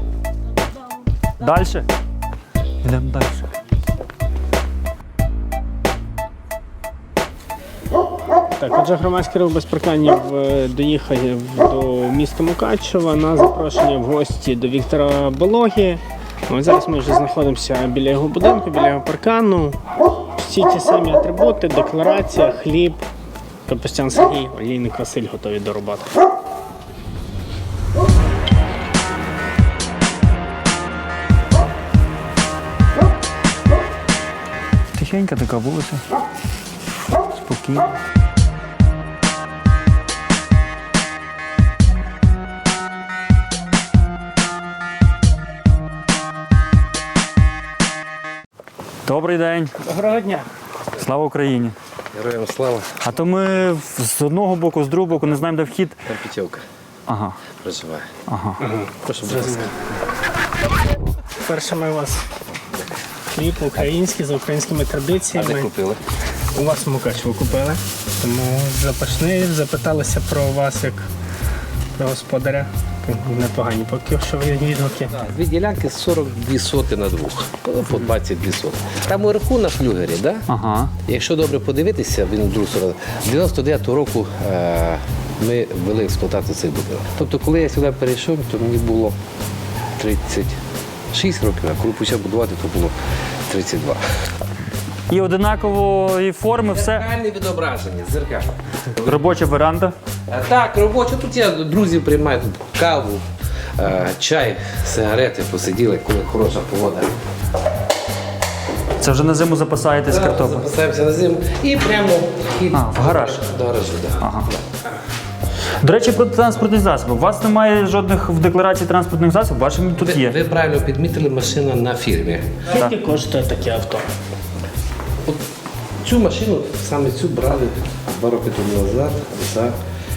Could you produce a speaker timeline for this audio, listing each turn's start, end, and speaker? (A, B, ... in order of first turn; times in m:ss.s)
0:01.4-0:01.8 A
0:02.8-0:03.5 A
0:08.5-0:23.0 B
0:23.6-0:26.1 B
0:34.9-0:36.0 A
0:37.4-0:37.9 A
0:49.0-0:49.7 A
0:49.8-0:50.5 B
0:51.0-0:51.7 A
0:52.1-0:53.1 C
0:53.0-0:56.0 A
0:56.0-0:56.6 C
0:57.1-0:57.4 A
0:57.6-0:58.1 C
0:58.3-0:58.6 A
0:58.6-0:59.7 B
0:59.0-0:59.8 C
1:01.4-1:02.2 B
1:03.3-1:05.7 B
1:05.3-1:06.0 C
1:06.5-1:11.1 B
1:12.0-1:15.1 B
1:15.1-1:20.4 C
1:20.5-1:20.9 A
1:21.0-1:29.2 C
1:30.0-1:30.6 C
1:31.1-1:33.0 C
1:33.5-1:34.0 C
1:35.1-1:37.0 A
1:36.6-1:39.4 C
1:39.0-1:39.9 A
1:40.3-1:43.2 C
1:43.8-1:47.1 C
1:49.0-1:50.6 A
1:50.0-1:54.6 C
1:52.7-1:53.4 A
1:54.2-1:54.5 A
1:55.8-2:00.4 A
2:00.0-2:02.6 C
2:02.7-2:04.1 B
2:06.0-2:09.7 C